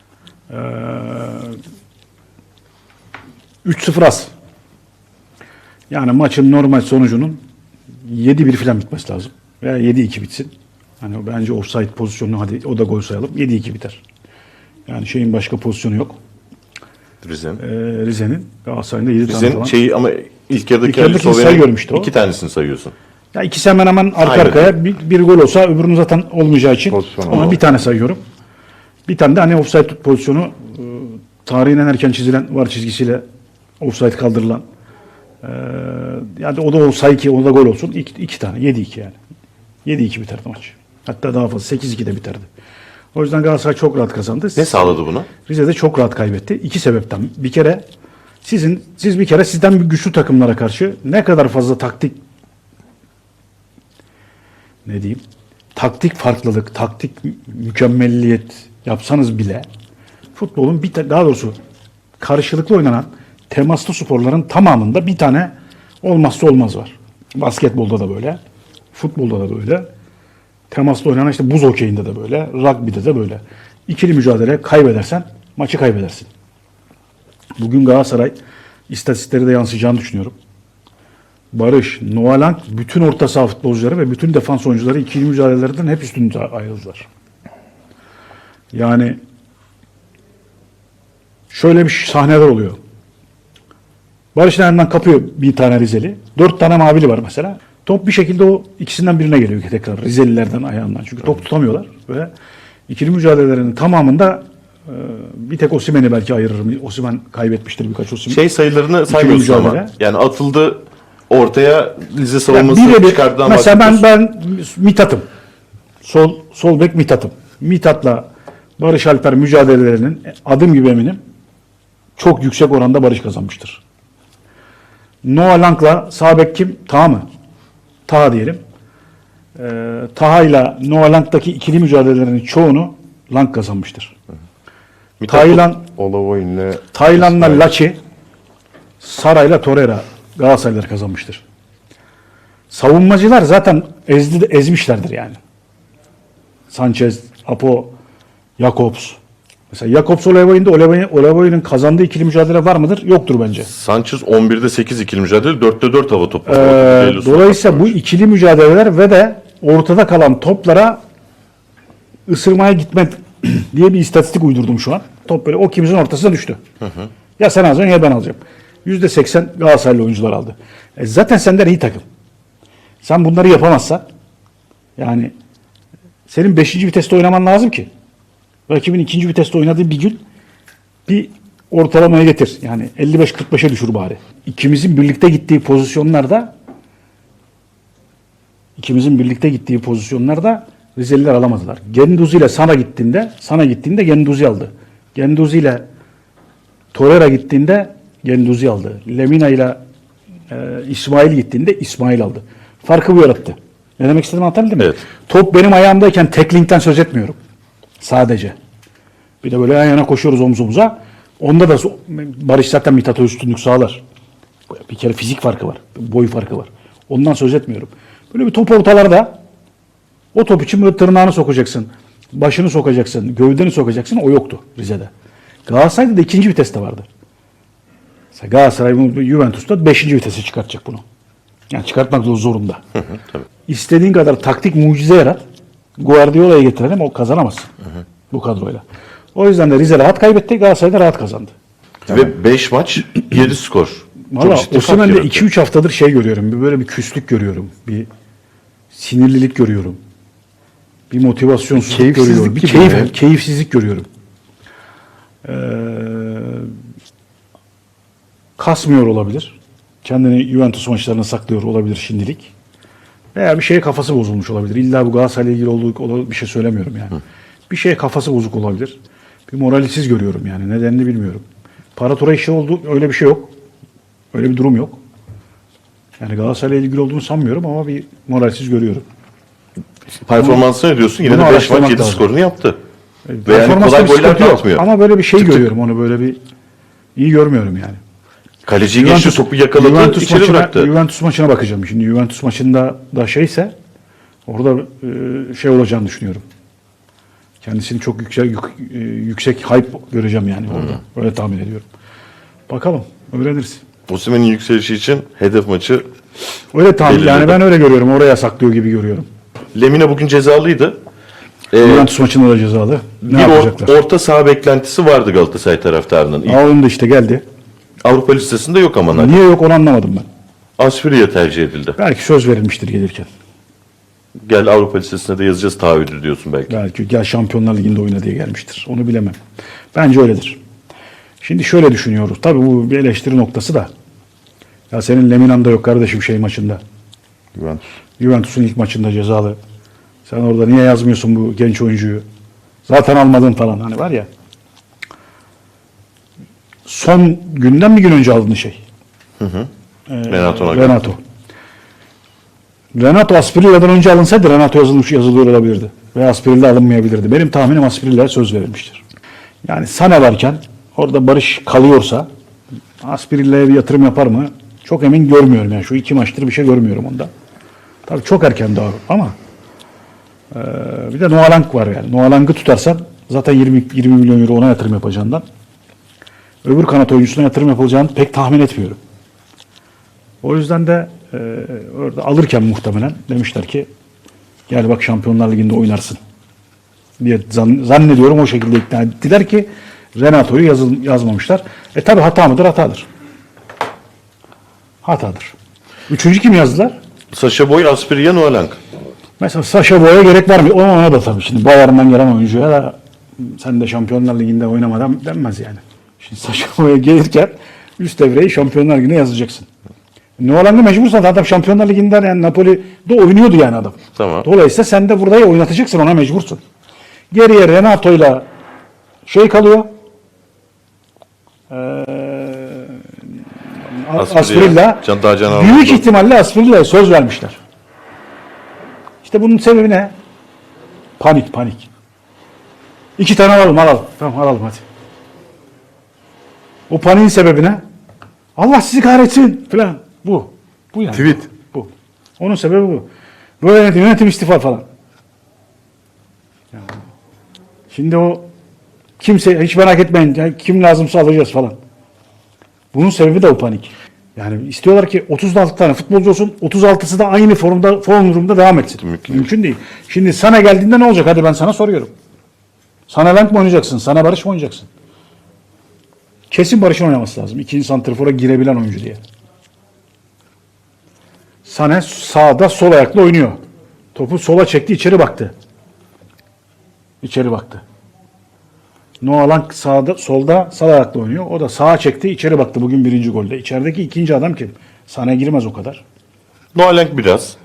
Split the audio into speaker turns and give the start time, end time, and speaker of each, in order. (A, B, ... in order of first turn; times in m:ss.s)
0:00.5-0:01.6 A
0:03.6-0:04.3 A
0:05.9-0:07.4 A
0:08.0-0:14.0 A
0:14.9-0:16.2 A
0:17.2-0:17.6 B
0:17.6-0:19.7 A
0:19.3-0:22.9 B
0:20.8-0:22.1 A
0:23.3-0:28.2 A
0:24.2-0:24.8 B
0:26.9-0:27.5 C
0:29.1-0:33.2 A
0:33.8-0:34.6 A
0:35.4-0:39.2 A
0:39.8-0:42.5 A
0:43.1-0:47.8 A
0:44.6-0:45.3 B
0:48.4-0:52.2 A
0:54.9-0:55.2 A
0:55.8-0:59.7 A
1:00.4-1:01.5 A
1:02.2-1:08.4 A
1:08.9-1:09.9 A
1:10.7-1:16.3 A
1:17.6-1:18.4 A
1:18.9-1:20.3 A
1:21.5-1:27.1 A
1:28.7-1:29.2 A
1:31.5-1:32.8 A
1:34.4-1:42.3 A
1:42.9-1:48.4 A
1:48.3-1:54.0 B
1:49.1-1:49.9 A
1:52.5-1:55.2 A
1:56.0-1:58.3 A
1:58.8-2:01.2 A
2:02.2-2:03.8 A
2:05.2-2:07.3 A
2:08.1-2:08.6 A
2:09.6-2:14.1 A
2:15.2-2:15.7 B
2:15.3-2:15.9 A
2:15.9-2:17.6 C
2:16.9-2:18.0 A
2:19.0-2:21.4 A
2:22.7-2:25.4 A
2:26.7-2:27.9 A
2:28.6-2:29.2 A
2:29.7-2:33.7 A
2:33.7-2:37.9 B
2:36.4-2:41.0 A
2:42.3-2:46.6 A
2:47.4-2:52.0 A
2:53.0-2:54.0 A
2:55.0-2:55.3 A
2:56.3-2:57.9 A
2:58.7-3:00.2 A
3:01.1-3:06.5 A
3:08.8-3:15.8 A
3:16.9-3:19.8 A
3:20.5-3:27.4 A
3:28.0-3:28.6 A
3:29.4-3:34.0 A
3:34.9-3:39.4 A
3:40.3-3:45.1 A
3:45.7-3:47.1 A
3:48.3-3:51.0 A
3:51.7-3:52.8 A
3:53.7-3:55.4 A
3:56.0-3:57.7 A
3:58.3-3:58.8 A
3:59.4-4:01.5 A
4:02.1-4:05.4 B
4:04.3-4:08.1 A
4:08.9-4:10.0 A
4:11.1-4:14.1 A
4:11.8-4:13.1 C
4:15.4-4:16.7 A
4:18.6-4:22.5 A
4:23.3-4:29.0 A
4:29.5-4:31.4 A
4:32.0-4:33.5 A
4:34.3-4:35.0 A
4:36.2-4:39.0 A
4:40.2-4:42.8 B
4:41.2-4:42.3 A
4:43.3-4:46.4 A
4:43.5-4:45.6 B
4:47.2-4:48.0 A
4:48.7-4:50.9 B
4:48.9-4:53.7 A
4:54.5-4:56.4 A
4:57.6-5:01.8 A
5:02.7-5:03.8 A
5:04.1-5:06.1 B
5:06.7-5:09.3 A
5:07.0-5:07.6 B
5:09.7-5:11.0 B
5:11.7-5:12.1 B
5:11.8-5:13.9 A
5:13.2-5:16.6 B
5:16.5-5:17.4 A
5:18.0-5:19.4 B
5:19.1-5:20.3 A
5:20.8-5:22.0 B
5:22.0-5:23.3 A
5:24.4-5:26.8 B
5:26.7-5:29.4 A
5:29.9-5:30.6 A
5:31.4-5:33.9 A
5:34.9-5:36.8 A
5:37.6-5:37.8 C
5:38.2-5:39.6 A
5:40.3-5:42.2 A
5:42.9-5:44.3 A
5:46.9-5:48.8 A
5:49.4-5:49.7 B
5:50.1-5:51.2 A
5:50.3-5:51.0 B
5:53.0-5:59.0 A
5:59.6-6:02.3 A
6:03.0-6:07.3 A
6:08.1-6:09.4 A
6:10.5-6:15.4 A
6:16.6-6:19.0 A
6:20.4-6:23.9 A
6:24.7-6:26.2 A
6:27.2-6:33.1 A
6:35.0-6:35.5 A
6:36.1-6:37.0 A
6:37.3-6:38.8 B
6:39.4-6:49.7 A
6:50.4-6:56.6 A
6:54.2-6:54.5 B
6:57.3-6:58.5 A
6:59.3-6:59.9 A
7:01.7-7:03.0 A
7:03.9-7:07.6 A
7:04.2-7:06.0 B
7:09.2-7:10.1 A
7:11.2-7:11.9 A
7:13.2-7:14.8 A
7:16.9-7:17.8 A
7:18.6-7:23.1 A
7:21.1-7:21.4 B
7:23.6-7:24.8 A
7:26.7-7:27.0 A
7:27.9-7:28.5 A
7:29.2-7:31.8 A
7:32.9-7:42.1 A
7:39.0-7:39.5 B
7:43.1-7:44.9 A
7:46.5-7:49.2 A
7:51.6-7:53.6 A
7:54.2-7:55.5 A
7:57.2-7:57.8 A
7:59.2-8:06.0 A
8:06.7-8:07.6 B